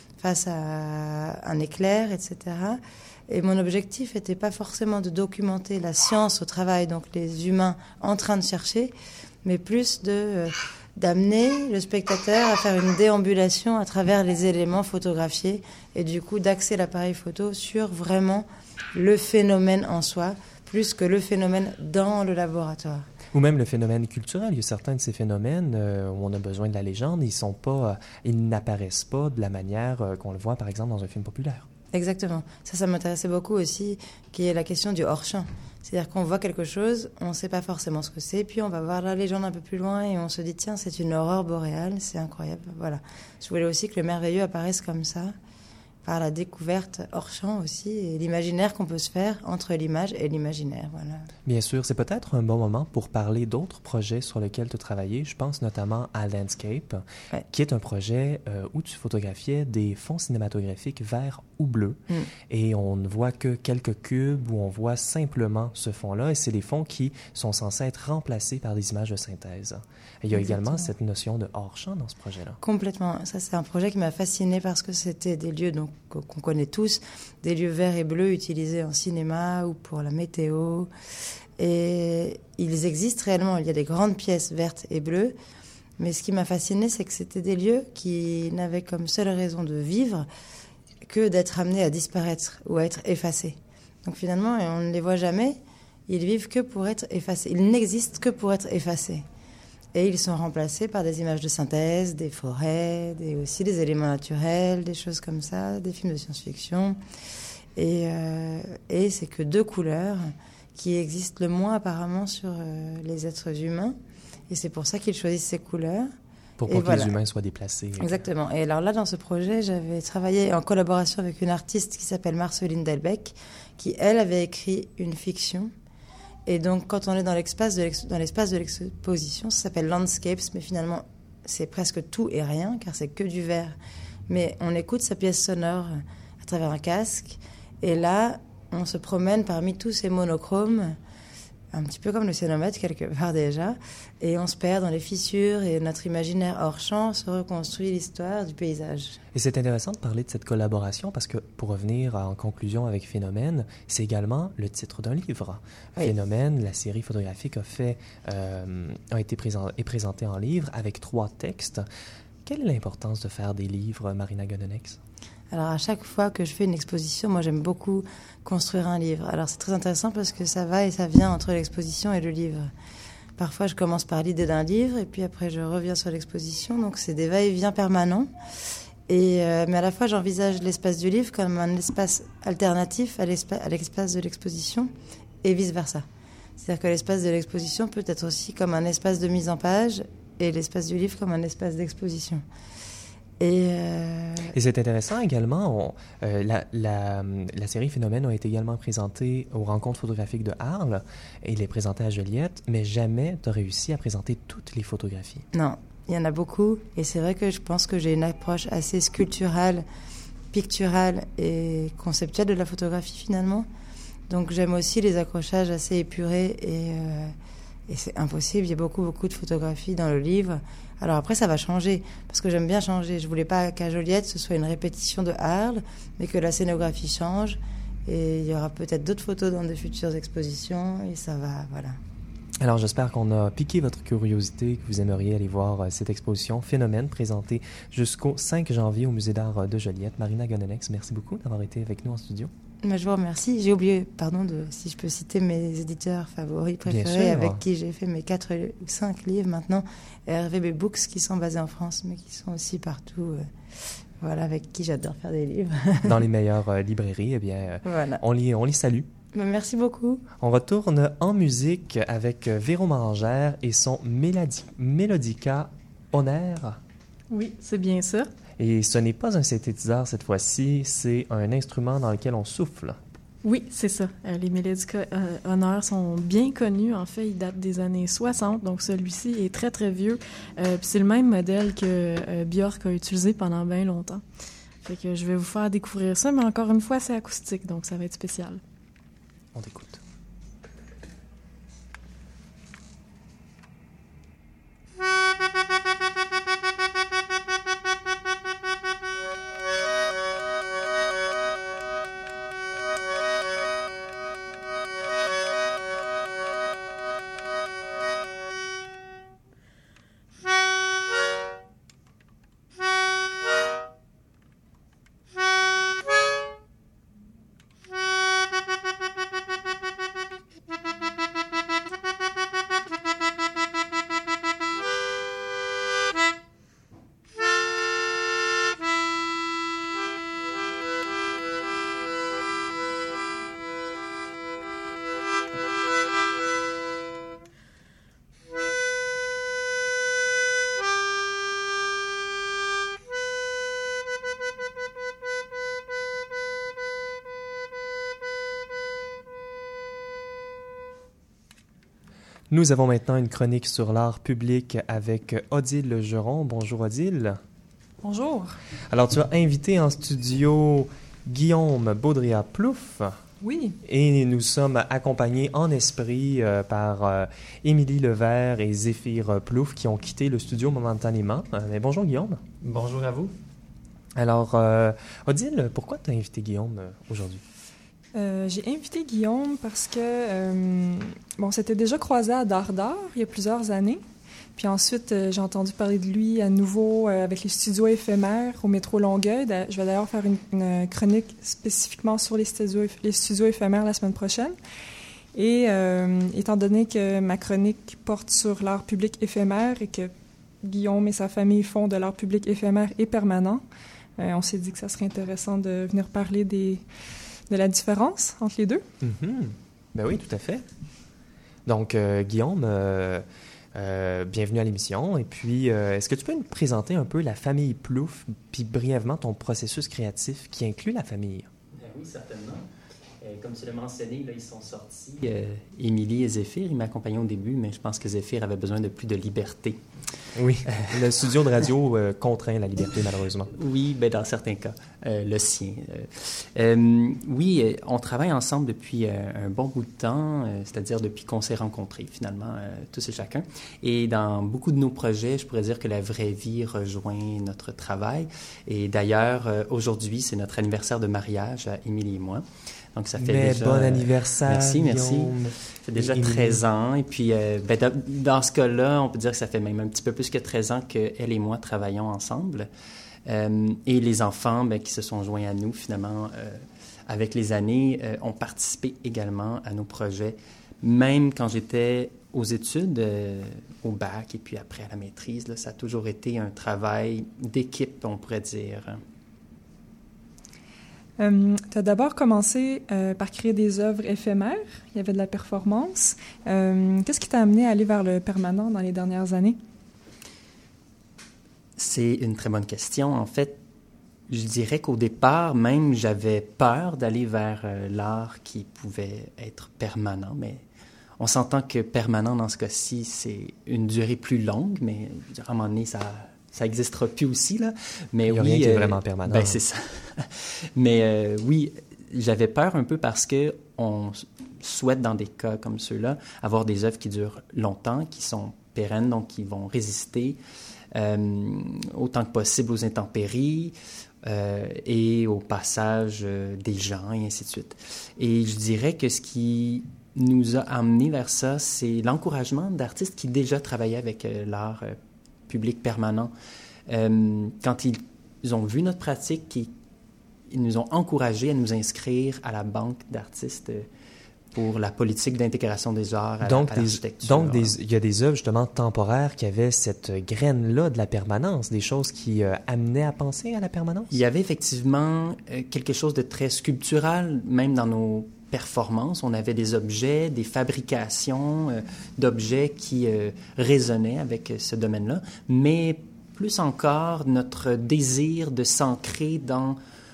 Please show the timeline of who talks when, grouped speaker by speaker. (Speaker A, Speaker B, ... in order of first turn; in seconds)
Speaker A: 0.2-8.9, 9.4-23.1, 31.9-45.3, 46.0-51.3, 70.3-70.9, 72.6-80.9, 81.6-85.3, 86.0-90.3, 91.0-99.2, 99.9-107.0, 107.8-114.0, 114.5-116.1, 116.7-117.1, 118.0-125.7, 126.5-133.8, 134.3-141.0, 141.7-149.2, 165.5-172.7, 173.4-178.3, 179.1-184.9, 185.4-186.0, 186.6-192.4, 193.4-194.5, 205.5-209.8, 210.5-213.7, 214.3-217.3, 217.9-232.0, 242.8-253.5, 254.2-256.2, 257.8-258.2, 259.3-260.2
Speaker B: 23.3-31.7, 51.5-72.6, 116.6-118.2, 149.3-161.8, 162.5-165.0, 194.5-205.4, 232.6-242.5, 246.8-247.6, 256.0-259.1, 260.4-266.8, 268.6-273.0, 289.5-290.0, 352.5-357.4, 358.9-363.2, 363.8-372.6, 374.2-377.4, 409.0-410.6, 411.7-413.2, 413.8-421.5, 430.4-433.5, 453.2-456.6, 508.3-509.6, 546.4-554.2
Speaker C: 267.3-268.3, 273.4-284.2, 284.8-288.6
Speaker D: 358.0-358.6, 363.4-363.8, 378.1-384.0, 384.6-394.5, 395.3-400.1, 400.6-403.6, 404.2-406.9, 407.5-408.8, 481.2-489.6
Speaker E: 372.6-373.3, 421.8-422.7, 423.2-429.8, 430.7-431.1, 433.5-462.7, 463.2-479.0, 491.8-493.6, 494.3-500.6, 501.2-520.4, 521.0-535.0, 535.5-536.3, 536.9-539.7, 540.5-543.9, 544.5-547.7, 554.1-569.8